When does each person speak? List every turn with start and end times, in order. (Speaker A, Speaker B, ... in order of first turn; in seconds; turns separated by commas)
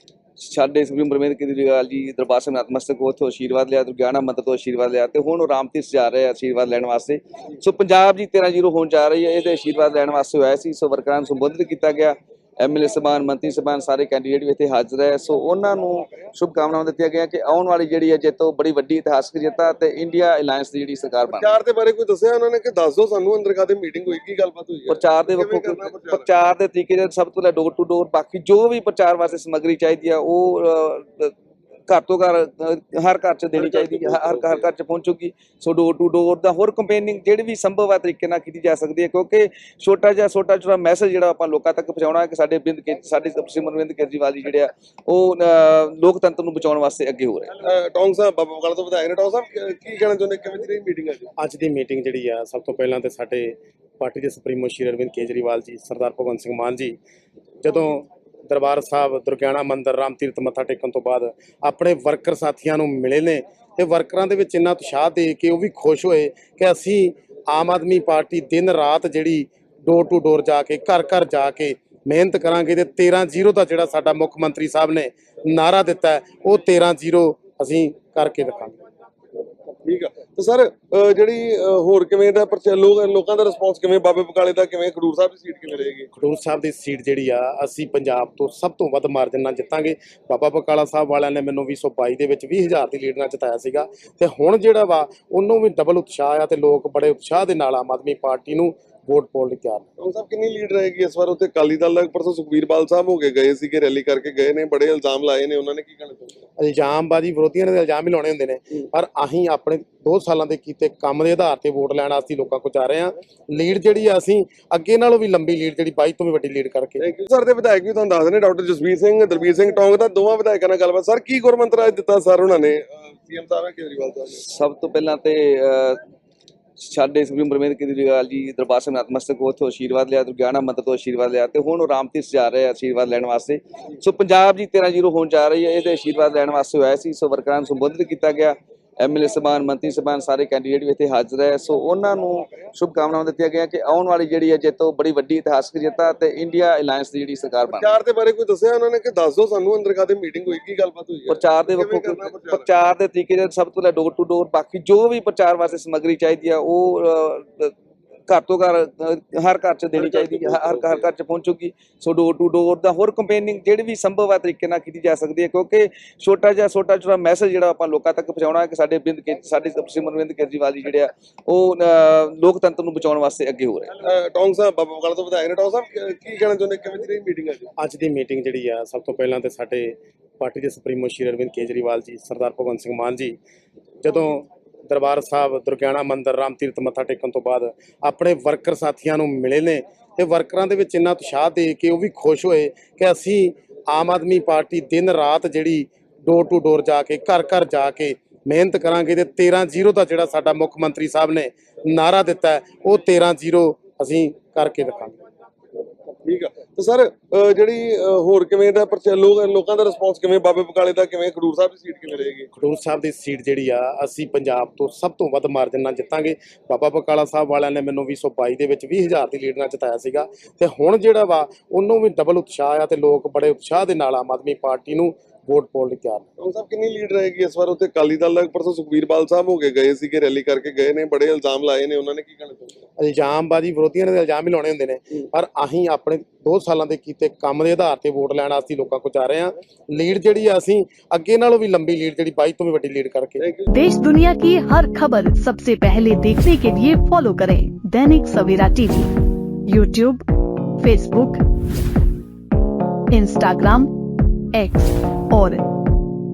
Speaker A: 0.4-21.5, Speaker B: 21.3-26.3, Speaker A: 24.9-31.3, Speaker A: 31.9-47.5, Speaker B: 33.6-34.6, Speaker B: 47.6-51.3, Speaker C: 51.4-57.0, Speaker C: 57.6-78.8, Speaker B: 79.8-86.1, Speaker C: 86.2-99.9, Speaker B: 100.0-106.3, Speaker C: 106.6-117.0, Speaker B: 117.0-124.4, Speaker A: 124.4-126.0, Speaker A: 126.8-147.9, Speaker B: 147.7-152.7, Speaker A: 151.3-157.7, Speaker A: 158.3-173.9, Speaker B: 160.0-161.0, Speaker B: 174.0-177.7, Speaker C: 177.8-183.4, Speaker C: 184.0-205.2, Speaker B: 206.2-212.5, Speaker C: 212.6-226.3, Speaker B: 226.4-232.8, Speaker C: 233.0-243.4, Speaker B: 243.4-243.7, Speaker D: 243.7-249.1, Speaker D: 249.7-250.2, Speaker D: 250.8-251.4, Speaker D: 253.1-253.9, Speaker D: 254.5-255.6